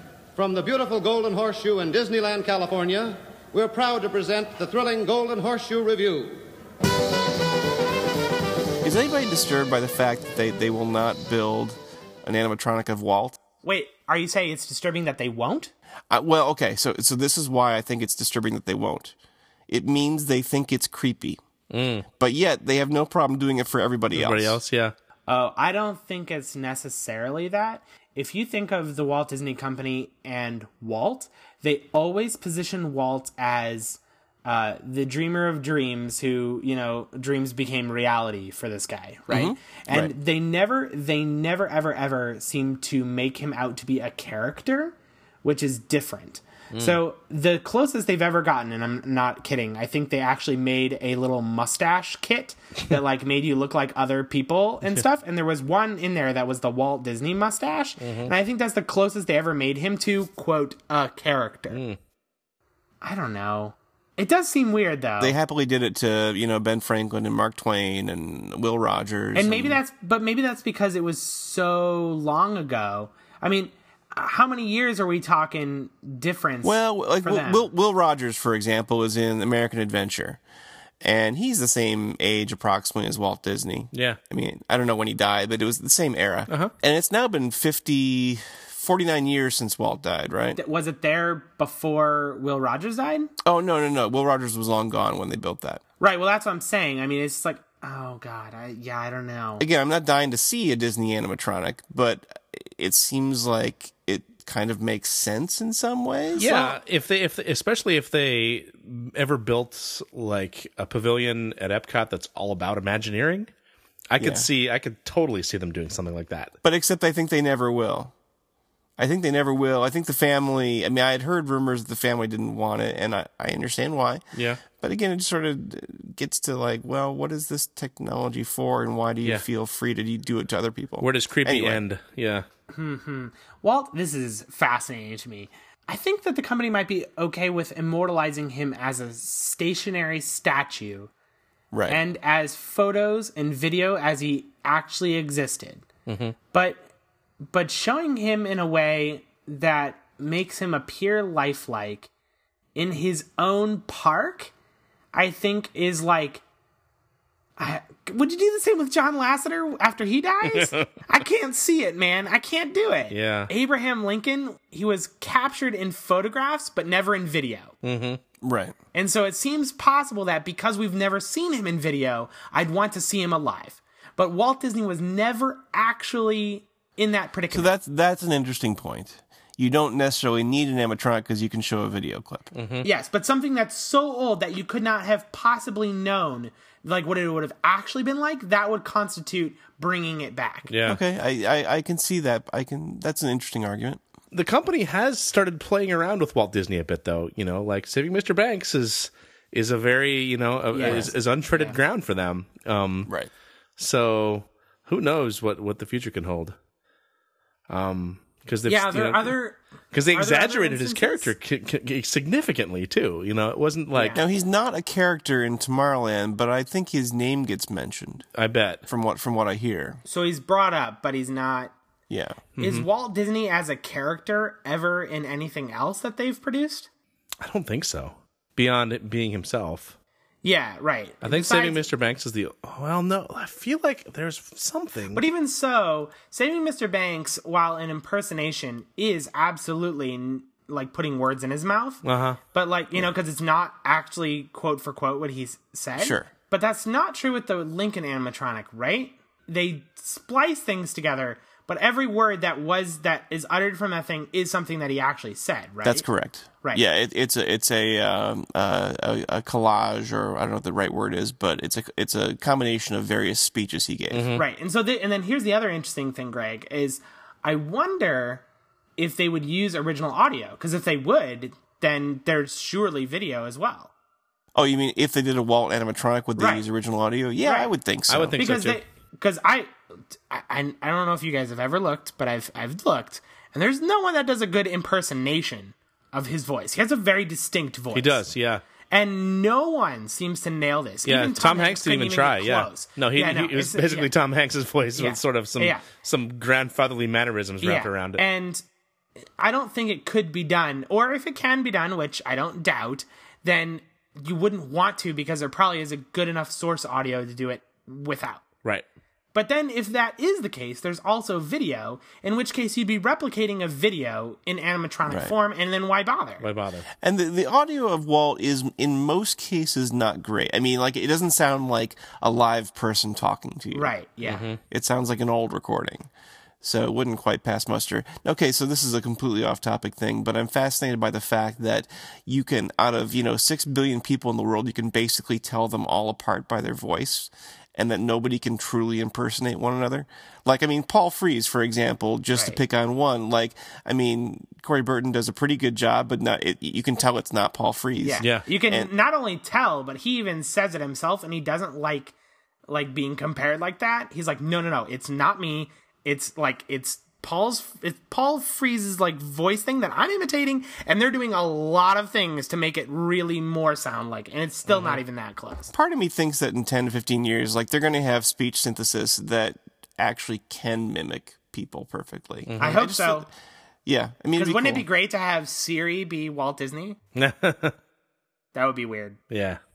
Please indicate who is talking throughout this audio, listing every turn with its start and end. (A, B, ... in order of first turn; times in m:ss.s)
0:00.4-0:06.4 A
0:08.8-0:13.4 B
0:13.6-0:15.7 C
0:16.1-0:19.1 B
0:19.7-0:21.4 B
0:21.7-0:22.1 D
0:22.2-0:24.6 B
0:24.1-0:24.9 D
0:25.3-1:01.8 C
0:39.3-0:40.1 B
0:46.7-0:47.0 D
0:58.0-0:58.3 D
1:01.7-1:02.0 D
1:03.0-1:05.4 C
1:05.2-1:09.8 B
1:09.3-1:17.7 C
1:16.6-1:20.4 B
1:21.0-1:30.6 B
1:23.9-1:24.2 D
1:30.6-1:33.3 C
1:33.4-1:35.8 B
1:36.0-1:39.7 C
1:39.6-1:46.7 B
1:46.4-1:53.5 D
1:54.1-1:56.5 D
1:54.2-1:54.5 B
1:56.6-1:58.1 B
1:59.0-2:11.8 B
2:04.3-2:04.6 D
2:11.0-2:12.4 D
2:12.7-2:21.1 C
2:21.7-2:22.0 B
2:21.9-2:25.9 C
2:26.1-2:26.4 D
2:26.5-2:26.8 C
2:27.5-2:32.1 C
2:32.8-2:34.5 C
2:35.1-2:36.4 C
2:37.6-2:47.8 C
2:40.5-2:40.9 D
2:43.1-2:43.5 D
2:47.8-2:48.2 D
2:48.4-2:48.7 B
2:48.9-2:57.7 C
2:57.5-3:02.5 B
3:02.6-3:02.9 D
3:02.8-3:10.7 C
3:10.7-3:11.0 D
3:10.9-3:14.0 B
3:14.3-3:23.1 D
3:20.7-3:21.8 C
3:23.8-3:26.6 D
3:27.7-3:29.4 D
3:28.6-3:29.6 C
3:29.9-3:34.2 D
3:30.1-3:31.3 C
3:33.9-3:34.2 C
3:34.1-3:38.3 B
3:38.4-3:38.8 D
3:38.9-3:40.0 B
3:40.0-3:41.7 C
3:42.1-3:42.5 B
3:42.6-3:42.9 D
3:42.6-3:46.9 C
3:47.4-3:50.0 D
3:50.4-3:51.9 C
3:51.2-3:55.2 D
3:55.1-4:16.0 C
4:02.0-4:02.4 D
4:06.0-4:06.3 B
4:15.8-4:24.3 B
4:24.1-4:24.4 D
4:24.4-4:28.4 C
4:29.0-4:33.9 C
4:34.6-4:38.4 B
4:36.4-4:36.7 C
4:37.4-4:37.7 C
4:38.1-4:38.8 D
4:38.4-4:48.2 C
4:47.9-4:48.6 D
4:48.9-4:54.1 C
4:51.1-4:58.2 D
4:55.0-4:55.9 C
4:57.6-4:58.6 C
4:59.4-5:08.4 C
5:09.3-5:16.4 C
5:15.1-5:15.4 B
5:16.4-5:16.9 D
5:17.0-5:23.9 B
5:23.7-5:24.5 C
5:24.2-5:24.6 D
5:24.7-5:26.1 B
5:26.6-5:48.9 B
5:42.3-5:42.6 C
5:48.0-5:52.2 C
5:52.7-6:05.7 C
6:04.7-6:05.0 D
6:05.7-6:13.3 B
6:12.5-6:12.8 D
6:12.6-6:13.3 C
6:13.9-6:14.8 B
6:14.4-6:17.0 C
6:17.2-6:17.8 D
6:18.5-6:19.2 C
6:19.3-6:19.6 D